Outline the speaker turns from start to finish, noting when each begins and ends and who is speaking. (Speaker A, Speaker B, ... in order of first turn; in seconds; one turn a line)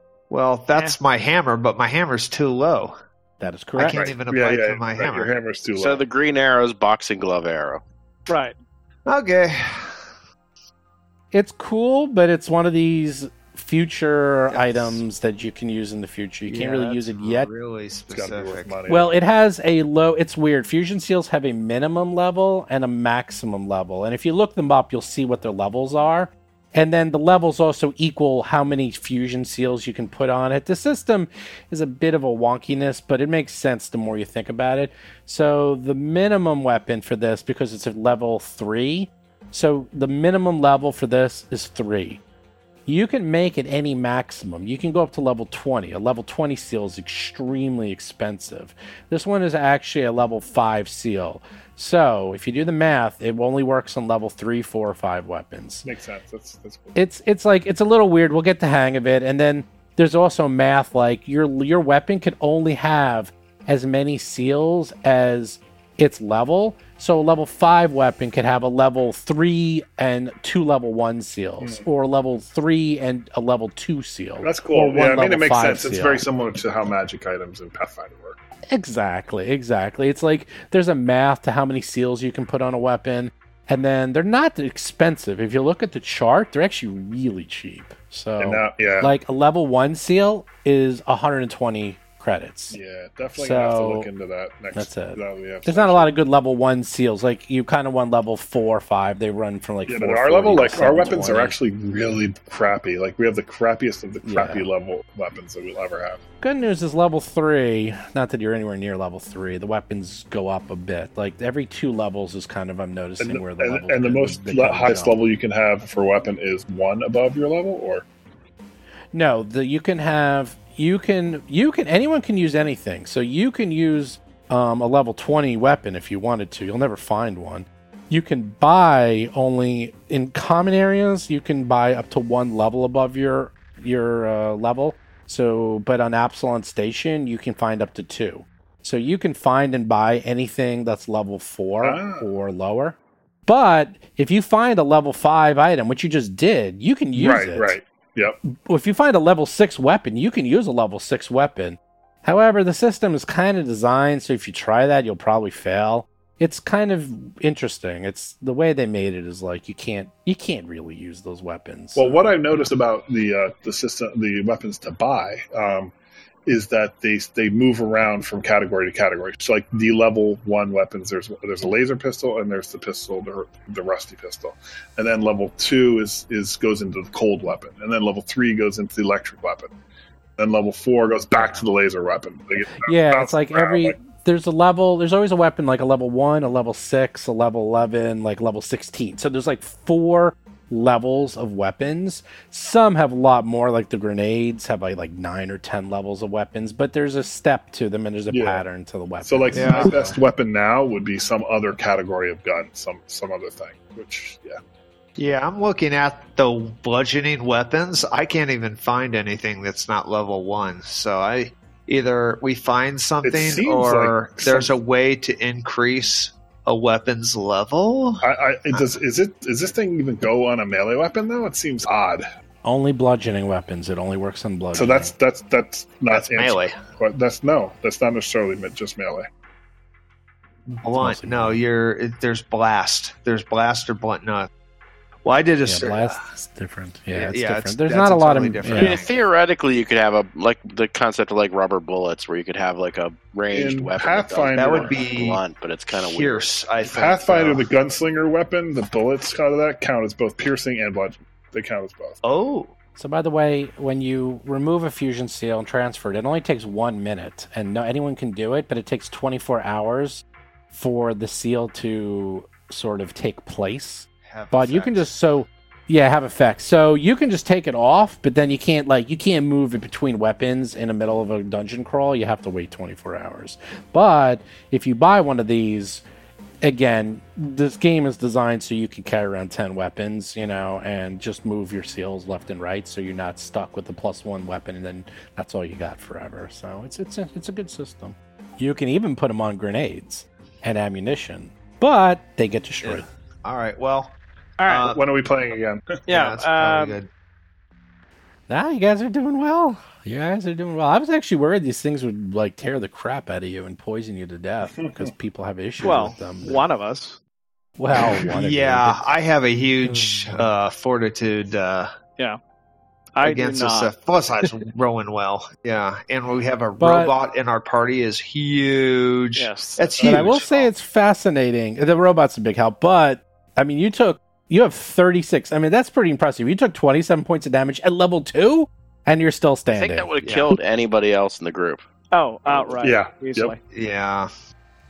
Speaker A: 0.3-3.0
Speaker B: 0.7-1.0
Speaker C: 3.4-4.1
Speaker A: 3.8-5.3
Speaker D: 3.8-6.0
Speaker E: 5.8-7.8
Speaker B: 8.3-8.6
Speaker A: 9.1-10.0
Speaker C: 11.3-17.5
Speaker A: 14.5-15.0
Speaker A: 16.5-18.8
Speaker D: 18.1-19.1
Speaker C: 18.9-42.2
Speaker C: 42.9-55.9
Speaker D: 55.8-57.0
Speaker C: 56.9-76.2
Speaker D: 74.4-78.4
Speaker C: 78.7-92.8
Speaker D: 88.4-89.1
Speaker D: 92.7-96.1
Speaker C: 93.3-94.1
Speaker C: 94.7-101.5
Speaker D: 99.9-106.2
Speaker C: 104.2-104.7
Speaker C: 106.4-115.2
Speaker D: 113.2-118.0
Speaker C: 119.1-147.8
Speaker D: 141.8-142.2
Speaker D: 147.1-148.4
Speaker C: 148.7-162.3
Speaker D: 161.9-165.9
Speaker D: 166.4-179.7
Speaker D: 180.4-184.0
Speaker C: 182.8-200.1
Speaker D: 198.3-198.6
Speaker D: 199.2-204.6
Speaker A: 199.5-200.2
Speaker A: 205.2-218.8
Speaker D: 213.2-214.7
Speaker D: 218.2-222.2
Speaker C: 222.6-225.1
Speaker D: 224.7-229.2
Speaker A: 226.1-226.8
Speaker A: 230.7-234.5
Speaker C: 230.9-231.6
Speaker A: 235.2-236.2
Speaker C: 235.7-239.0
Speaker A: 237.1-239.1
Speaker E: 238.7-246.5
Speaker D: 243.5-245.0
Speaker A: 244.5-245.4
Speaker A: 245.9-247.7
Speaker D: 246.8-252.2
Speaker A: 252.2-252.7
Speaker C: 252.9-276.0
Speaker A: 264.2-265.1
Speaker C: 276.6-293.1
Speaker A: 292.8-295.0
Speaker B: 294.6-294.9
Speaker D: 294.8-296.1
Speaker B: 296.1-297.0
Speaker A: 296.1-297.1
Speaker C: 298.5-306.6
Speaker D: 304.7-305.1
Speaker B: 305.8-307.2
Speaker C: 307.8-309.1
Speaker A: 308.0-311.9
Speaker C: 309.8-310.5
Speaker B: 313.1-314.5
Speaker A: 313.2-320.7
Speaker C: 316.8-317.1
Speaker B: 319.4-320.4
Speaker C: 320.0-330.1
Speaker E: 329.7-331.8
Speaker A: 330.2-330.5
Speaker B: 332.1-333.6
Speaker D: 332.8-333.5
Speaker A: 333.7-334.3